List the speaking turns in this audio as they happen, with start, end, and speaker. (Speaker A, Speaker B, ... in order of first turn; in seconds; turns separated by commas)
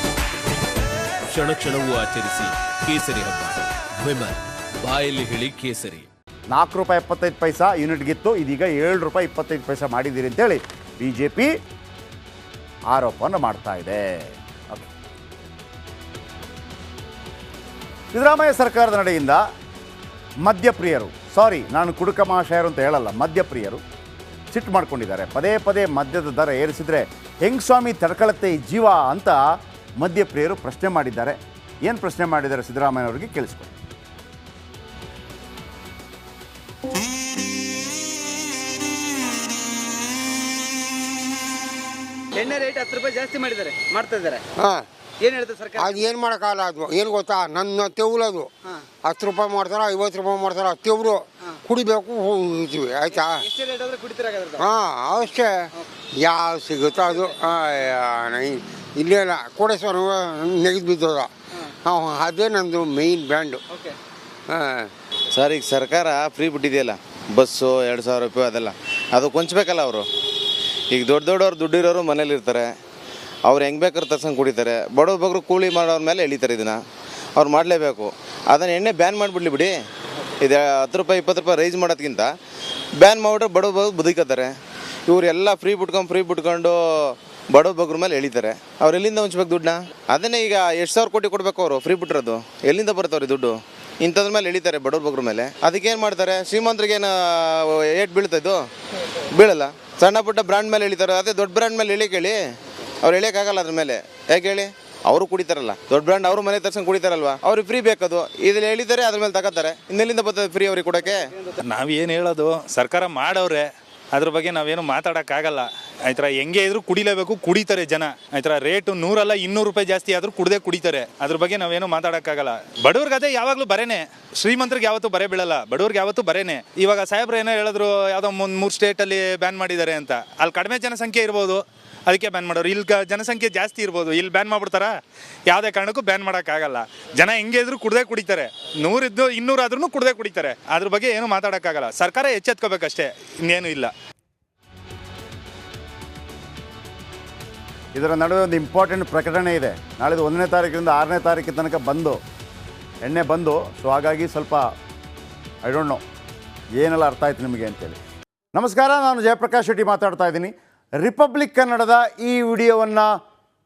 Speaker A: 1.3-6.1, Speaker B: 6.5-11.5, Speaker B: 12.9-14.9, Speaker B: 18.1-19.4, Speaker B: 20.4-23.8, Speaker B: 24.5-29.4, Speaker B: 30.0-33.7, Speaker C: 42.4-44.4, Speaker D: 44.6-44.9, Speaker C: 45.2-45.7, Speaker D: 45.7-48.5, Speaker D: 49.0-53.5, Speaker C: 53.6-54.5, Speaker D: 54.6-61.3, Speaker D: 61.8-63.6, Speaker D: 64.5-64.9, Speaker E: 65.3-70.1, Speaker E: 70.9-72.7, Speaker E: 73.4-76.8, Speaker E: 77.3-79.7, Speaker E: 80.4-82.3, Speaker E: 83.0-84.5, Speaker E: 85.1-102.4, Speaker E: 103.0-111.3, Speaker F: 111.6-134.9, Speaker F: 135.5-143.9, Speaker B: 147.9-152.2, Speaker B: 153.0-154.7, Speaker B: 155.6-156.0, Speaker B: 156.8-158.0, Speaker B: 158.5-163.1